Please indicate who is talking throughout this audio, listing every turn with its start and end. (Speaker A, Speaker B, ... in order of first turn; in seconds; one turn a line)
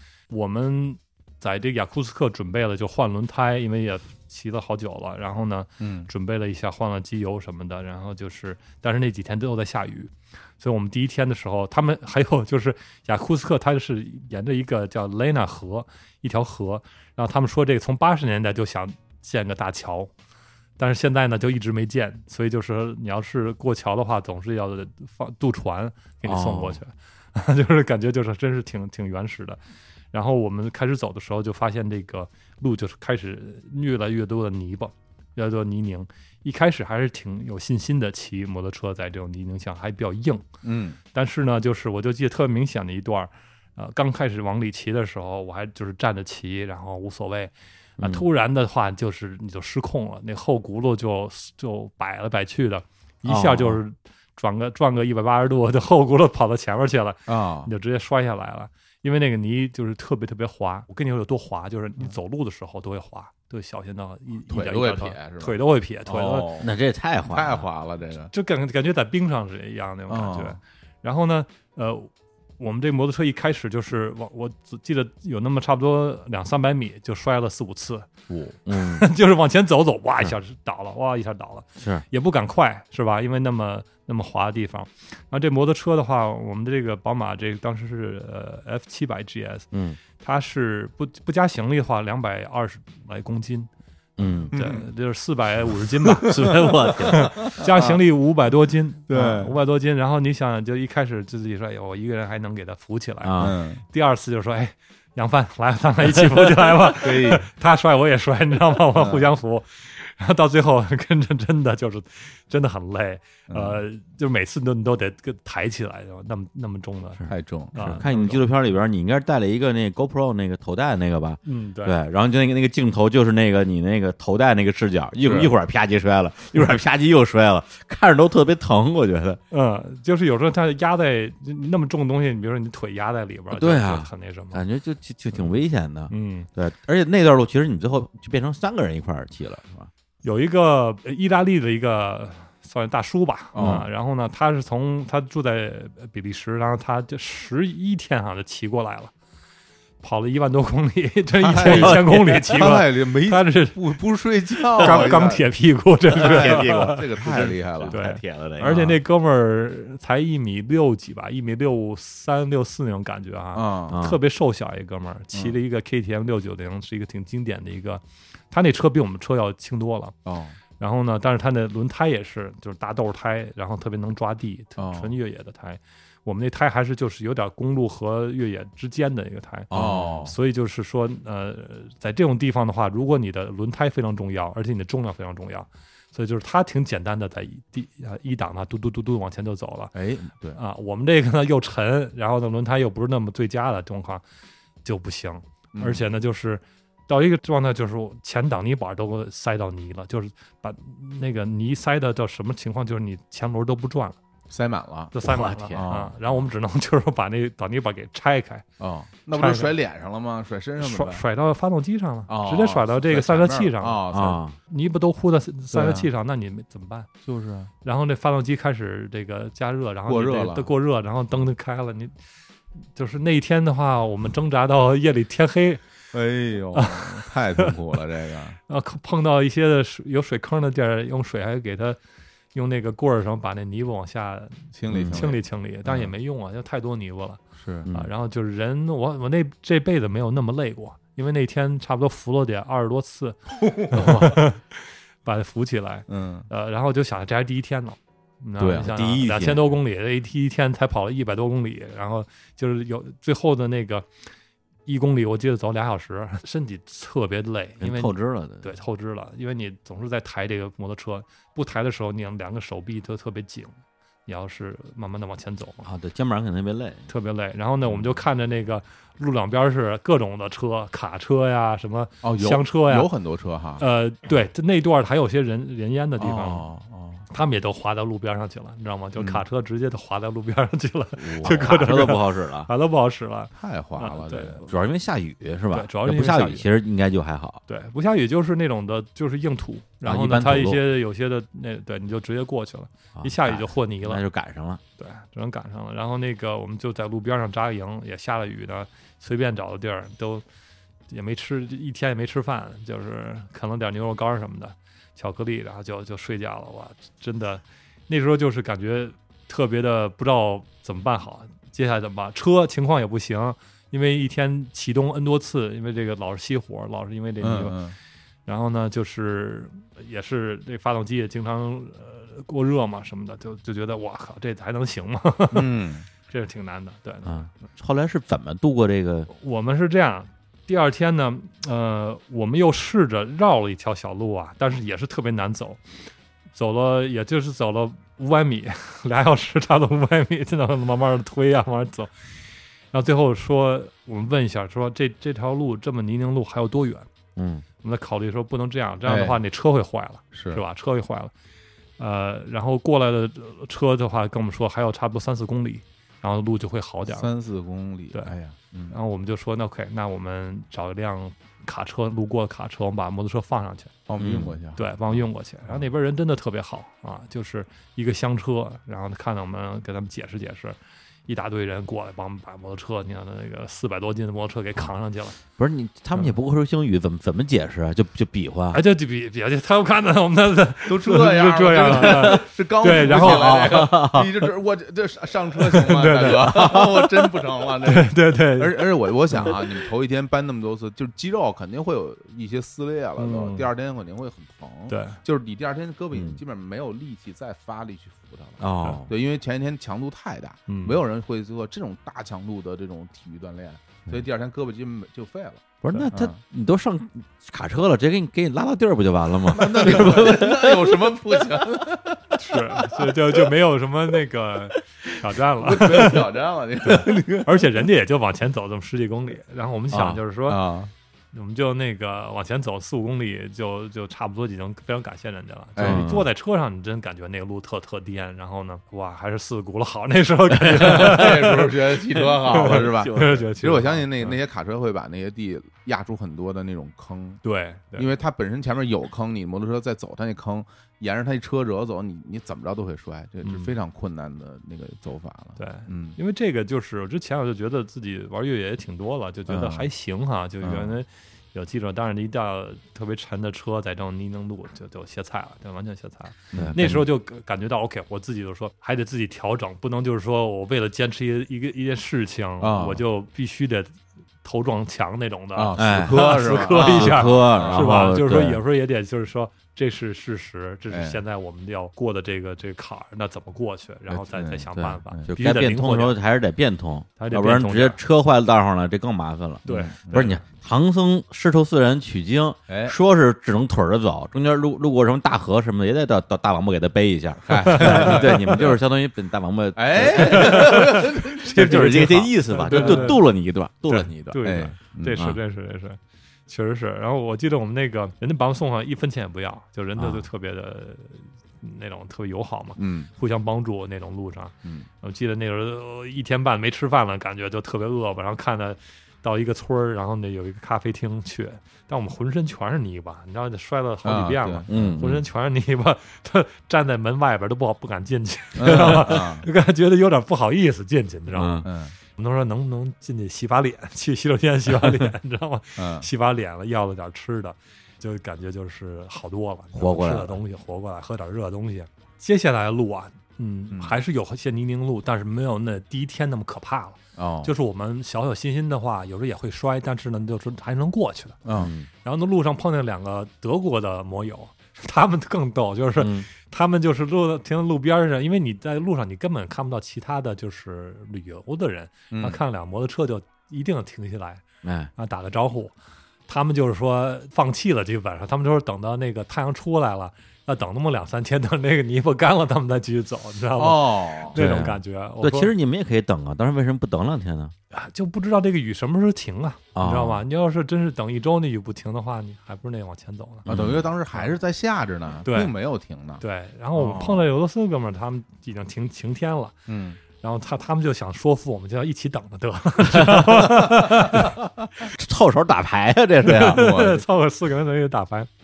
Speaker A: 0.3-20.1
Speaker B: 5.8-6.1
Speaker A: 20.8-29.6
Speaker C: 26.2-26.8
Speaker A: 30.1-40.5
Speaker B: 40.6-41.0
Speaker A: 41.1-66.5
Speaker C: 48.0-48.2
Speaker C: 53.2-53.8
Speaker B: 57.3-57.7
Speaker B: 64.5-65.6
Speaker B: 66.1-66.7
Speaker C: 66.6-67.7
Speaker B: 67.3-68.3
Speaker A: 68.3-78.1
Speaker B: 70.1-70.6
Speaker C: 78.7-79.0
Speaker A: 78.7-89.7
Speaker C: 81.8-82.0
Speaker C: 89.7-90.0
Speaker A: 90.2-93.7
Speaker C: 94.2-94.5
Speaker A: 94.3-117.2
Speaker B: 94.5-94.9
Speaker C: 96.2-97.5
Speaker B: 96.3-98.0
Speaker B: 99.1-99.5
Speaker C: 103.2-103.5
Speaker B: 103.4-103.8
Speaker B: 106.9-107.5
Speaker B: 108.9-109.2
Speaker B: 113.5-113.8
Speaker C: 117.2-129.4
Speaker B: 117.3-118.0
Speaker A: 117.7-118.4
Speaker A: 121.5-122.0
Speaker B: 125.2-125.5
Speaker A: 129.5-134.6
Speaker C: 133.5-139.9
Speaker A: 136.1-136.5
Speaker A: 140.2-149.1
Speaker B: 143.5-143.8
Speaker C: 143.6-143.9
Speaker A: 150.0-153.9
Speaker B: 151.4-155.4
Speaker C: 151.6-152.5
Speaker A: 154.8-157.1
Speaker C: 154.8-155.2
Speaker C: 156.1-159.0
Speaker B: 156.1-158.0
Speaker A: 157.9-170.1
Speaker B: 163.6-164.0
Speaker C: 163.9-164.2
Speaker B: 170.3-170.6
Speaker A: 170.8-189.9
Speaker B: 174.8-175.1
Speaker C: 179.7-180.2
Speaker B: 179.7-180.3
Speaker B: 189.9-190.6
Speaker A: 190.6-194.2
Speaker A: 194.8-204.2
Speaker B: 195.7-196.0
Speaker B: 204.5-206.2
Speaker A: 205.1-208.6
Speaker C: 205.2-205.8
Speaker B: 208.8-211.2
Speaker A: 209.3-209.7
Speaker A: 210.8-214.0
Speaker B: 212.3-214.4
Speaker C: 214.1-214.6
Speaker A: 214.7-217.1
Speaker B: 215.7-216.1
Speaker B: 217.2-217.7
Speaker A: 217.8-222.1
Speaker B: 220.1-220.7
Speaker A: 222.9-225.8
Speaker B: 226.1-228.6
Speaker A: 226.7-227.7
Speaker A: 228.7-232.0
Speaker A: 232.5-237.4
Speaker B: 234.7-236.1
Speaker C: 234.9-235.2
Speaker B: 237.6-237.9
Speaker C: 237.8-238.1
Speaker A: 237.9-254.1
Speaker B: 243.6-244.4
Speaker B: 246.1-246.5
Speaker B: 248.6-248.9
Speaker C: 248.8-249.7
Speaker A: 254.9-263.7
Speaker C: 257.8-258.7
Speaker A: 264.3-265.9
Speaker C: 265.8-267.1
Speaker A: 267.1-273.1
Speaker B: 272.2-273.8
Speaker A: 273.8-276.7
Speaker B: 276.2-277.2
Speaker A: 277.3-284.7
Speaker C: 281.2-282.7
Speaker B: 283.5-284.6
Speaker C: 284.7-287.6
Speaker A: 285.7-286.7
Speaker A: 287.7-294.2
Speaker C: 290.0-290.8
Speaker C: 293.1-294.8
Speaker A: 295.0-300.4
Speaker A: 301.1-317.8
Speaker B: 317.4-317.9
Speaker A: 318.4-325.7
Speaker B: 325.5-326.1
Speaker A: 326.3-327.5
Speaker C: 327.3-329.3
Speaker A: 329.3-335.8
Speaker A: 336.6-342.1
Speaker A: 342.9-347.1
Speaker C: 347.4-347.6
Speaker A: 347.8-351.3
Speaker B: 349.1-349.4
Speaker B: 350.3-350.6
Speaker A: 352.0-357.3
Speaker B: 357.1-358.9
Speaker A: 358.9-363.9
Speaker B: 364.1-364.9
Speaker C: 364.2-364.6
Speaker A: 364.8-375.4
Speaker C: 375.5-378.8
Speaker A: 378.7-383.9
Speaker B: 380.9-406.4
Speaker C: 381.9-384.3
Speaker A: 385.7-387.3
Speaker A: 387.8-389.7
Speaker A: 393.2-393.7
Speaker A: 394.9-395.2
Speaker C: 396.1-396.4
Speaker C: 398.6-399.1
Speaker A: 400.7-401.0
Speaker C: 405.8-411.1
Speaker B: 409.5-413.1
Speaker A: 412.4-416.2
Speaker B: 415.6-417.6
Speaker A: 416.8-420.6
Speaker C: 419.9-420.2
Speaker B: 420.5-420.9
Speaker A: 421.3-434.4
Speaker B: 425.8-426.1
Speaker C: 425.8-426.3
Speaker C: 430.7-431.3
Speaker B: 430.8-437.4
Speaker C: 432.6-433.4
Speaker A: 437.4-438.1
Speaker B: 437.9-446.2
Speaker A: 443.4-443.7
Speaker A: 445.6-476.2
Speaker B: 449.5-449.9
Speaker B: 450.6-450.9
Speaker B: 456.5-456.8
Speaker C: 456.6-457.1
Speaker B: 462.6-463.0
Speaker B: 465.6-467.9
Speaker C: 465.8-468.6
Speaker B: 470.9-471.2
Speaker B: 474.1-475.3
Speaker C: 474.8-494.1
Speaker A: 477.2-478.0
Speaker A: 479.7-480.3
Speaker B: 479.7-480.4
Speaker B: 482.7-482.9
Speaker B: 487.4-488.8
Speaker A: 487.7-488.3
Speaker B: 489.8-492.0
Speaker A: 490.1-493.2
Speaker B: 492.6-493.2
Speaker A: 493.9-541.4
Speaker B: 493.9-495.3
Speaker C: 495.1-495.4
Speaker C: 500.0-500.3
Speaker B: 502.8-503.1
Speaker B: 514.0-515.0
Speaker C: 514.7-515.2
Speaker B: 518.6-519.5
Speaker C: 521.3-521.7
Speaker B: 521.6-521.9
Speaker B: 525.8-526.1
Speaker C: 529.7-530.4
Speaker B: 537.2-537.5
Speaker B: 541.5-541.7
Speaker C: 541.6-541.9
Speaker A: 542.0-554.4
Speaker C: 546.0-546.3
Speaker B: 552.1-552.4
Speaker C: 554.6-554.9
Speaker A: 555.0-555.7
Speaker A: 556.3-565.5
Speaker B: 563.5-564.4
Speaker C: 564.3-567.5
Speaker A: 567.7-573.5
Speaker C: 569.7-570.2
Speaker C: 573.5-573.9
Speaker B: 573.5-576.2
Speaker A: 575.2-575.5
Speaker A: 576.2-579.6
Speaker B: 576.7-577.3
Speaker B: 579.7-580.0
Speaker A: 580.1-584.3
Speaker C: 582.9-583.4
Speaker C: 584.9-586.7
Speaker A: 586.2-588.3
Speaker B: 586.4-587.0